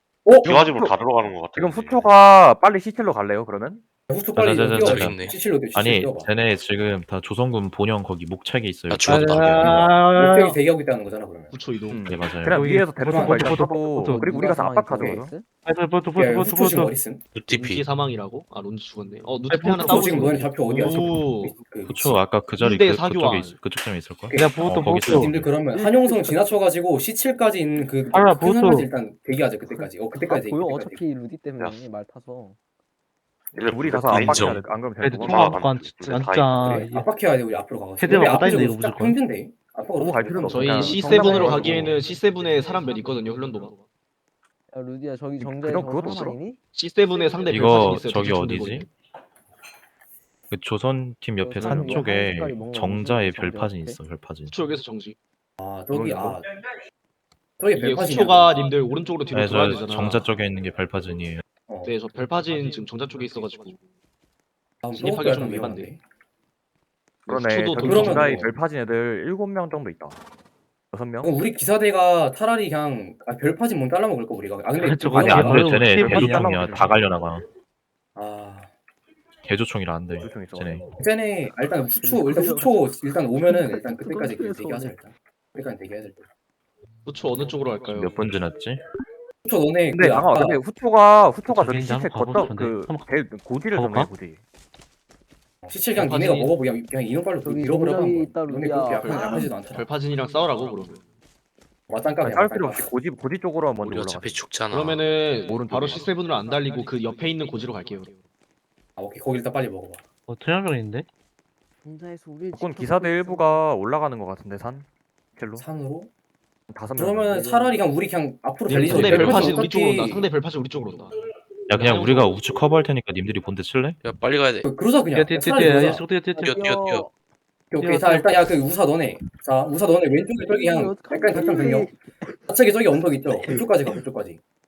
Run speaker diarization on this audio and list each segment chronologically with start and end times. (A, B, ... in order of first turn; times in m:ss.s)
0:00.2-0:00.5 A
0:00.4-0:00.9 B
0:00.4-0:02.1 C
0:01.5-0:03.8 B
0:04.1-0:06.3 A
0:04.3-0:09.2 D
0:04.8-0:05.4 E
0:08.9-0:09.9 E
0:09.0-0:10.6 F
0:10.1-0:11.5 A
0:11.5-0:12.4 G
0:11.9-0:15.3 B
0:12.0-0:12.6 D
0:13.0-0:14.4 F
0:13.0-0:13.6 A
0:14.0-0:15.5 H
0:15.6-0:16.9 F
0:16.2-0:17.2 A
0:17.3-0:17.8 E
0:17.5-0:21.6 G
0:19.5-0:20.5 F
0:19.8-0:22.2 A
0:21.8-0:25.5 D
0:22.6-0:23.6 G
0:24.3-0:31.0 A
0:24.3-0:26.4 F
0:28.1-0:28.9 F
0:29.7-0:32.6 H
0:31.6-0:31.8 C
0:33.5-0:34.6 C
0:33.7-0:35.6 B
0:34.1-0:34.7 E
0:35.0-0:37.1 F
0:35.2-0:36.8 C
0:36.6-0:41.9 A
0:38.0-0:39.2 F
0:40.0-0:41.9 B
0:40.5-0:43.8 G
0:40.8-0:42.1 H
0:44.7-0:46.6 H
0:45.4-0:46.4 B
0:46.7-0:48.9 G
0:47.5-0:48.9 D
0:50.5-0:54.5 D
0:51.4-0:54.0 H
0:51.6-0:52.0 B
0:54.5-0:55.2 G
0:55.6-0:56.4 A
0:55.9-0:56.4 B
0:57.6-0:58.5 A
0:57.7-1:00.3 G
0:59.3-1:01.4 D
1:01.8-1:03.8 G
1:04.8-1:06.0 A
1:04.9-1:05.9 G
1:07.2-1:08.5 G
1:07.3-1:10.2 B
1:07.8-1:08.5 A
1:10.9-1:11.3 B
1:11.2-1:16.9 A
1:14.8-1:16.6 F
1:15.1-1:17.4 D
1:15.9-1:16.9 B
1:18.1-1:18.7 A
1:19.4-1:20.9 D
1:20.2-1:20.8 B
1:21.0-1:26.2 A
1:21.6-1:22.9 H
1:23.4-1:24.9 H
1:27.0-1:28.2 G
1:27.9-1:28.8 D
1:29.4-1:30.6 A
1:29.9-1:34.4 B
1:31.5-1:33.1 F
1:33.7-1:34.1 F
1:35.6-1:39.9 A
1:35.9-1:36.5 G
1:37.4-1:39.5 H
1:38.9-1:41.0 G
1:41.9-1:42.9 A
1:42.2-1:44.4 B
1:43.8-1:45.0 E
1:44.7-1:48.1 G
1:45.4-1:46.1 B
1:45.8-1:48.2 H
1:49.0-1:50.0 A
1:50.3-1:51.0 F
1:51.8-1:53.6 H
1:52.5-1:55.6 B
1:55.6-1:56.1 A
1:56.7-1:57.5 B
1:57.0-2:00.3 A
1:57.3-1:57.8 H
1:58.7-2:01.1 G
1:58.9-1:59.5 D
2:01.7-2:04.0 D
2:01.7-2:02.3 G
2:04.0-2:04.7 E
2:04.6-2:06.0 A
2:05.1-2:06.9 F
2:06.4-2:07.1 H
2:06.4-2:07.1 E
2:07.7-2:11.9 A
2:07.8-2:08.3 F
2:10.4-2:12.3 H
2:12.5-2:14.4 A